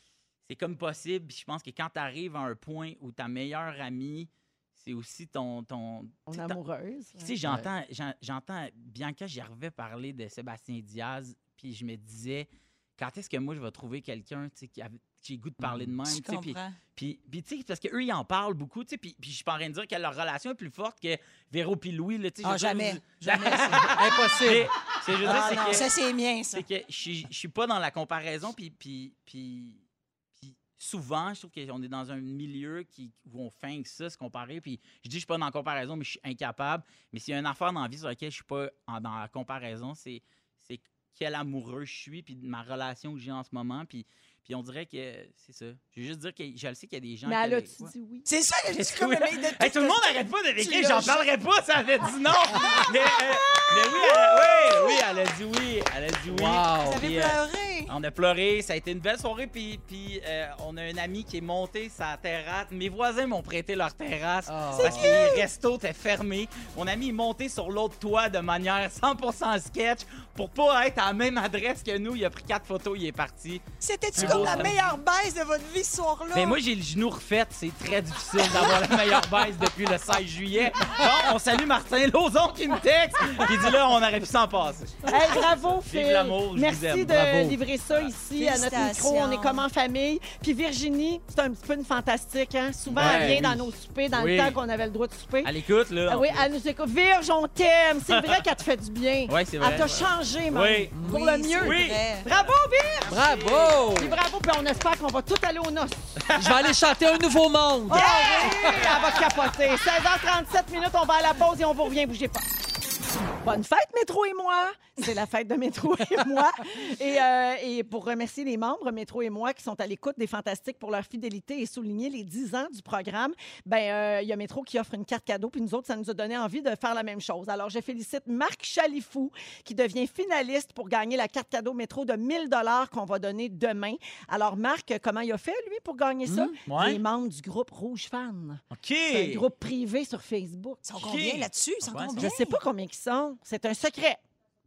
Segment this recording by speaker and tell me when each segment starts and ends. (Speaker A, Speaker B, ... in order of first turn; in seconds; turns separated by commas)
Speaker A: 0.5-6.6, Speaker B: 6.3-7.3, Speaker A: 7.2-25.9, Speaker C: 15.6-15.9, Speaker D: 16.1-16.8, Speaker D: 22.4-24.0, Speaker C: 23.9-24.7, Speaker D: 25.2-26.6, Speaker A: 26.5-29.8, Speaker A: 30.4-47.9, Speaker B: 47.2-48.3, Speaker D: 48.3-51.3, Speaker A: 48.7-73.6, Speaker D: 52.6-54.9, Speaker C: 56.3-57.1, Speaker D: 56.8-57.9, Speaker C: 64.5-65.2, Speaker D: 64.8-65.5, Speaker D: 73.8-76.6, Speaker A: 74.1-74.8, Speaker C: 74.2-74.7, Speaker A: 76.3-87.1, Speaker B: 85.0-95.5, Speaker C: 87.0-87.6, Speaker D: 88.3-89.7, Speaker A: 92.9-93.6, Speaker C: 93.0-93.6, Speaker A: 94.1-94.6, Speaker A: 95.4-96.5, Speaker B: 96.1-103.2, Speaker A: 98.1-98.4, Speaker A: 99.3-100.9, Speaker C: 100.9-101.4, Speaker D: 101.1-102.3, Speaker A: 101.6-102.5, Speaker A: 103.0-103.8, Speaker C: 103.1-104.2, Speaker B: 104.0-106.3, Speaker A: 106.3-106.6, Speaker C: 106.3-108.8, Speaker B: 107.9-112.5, Speaker D: 107.9-109.2, Speaker A: 108.7-109.0, Speaker B: 113.4-140.8, Speaker C: 136.3-136.6, Speaker A: 136.7-137.0, Speaker A: 138.7-139.4, Speaker D: 140.8-142.6, Speaker A: 141.0-142.3, Speaker B: 142.2-144.2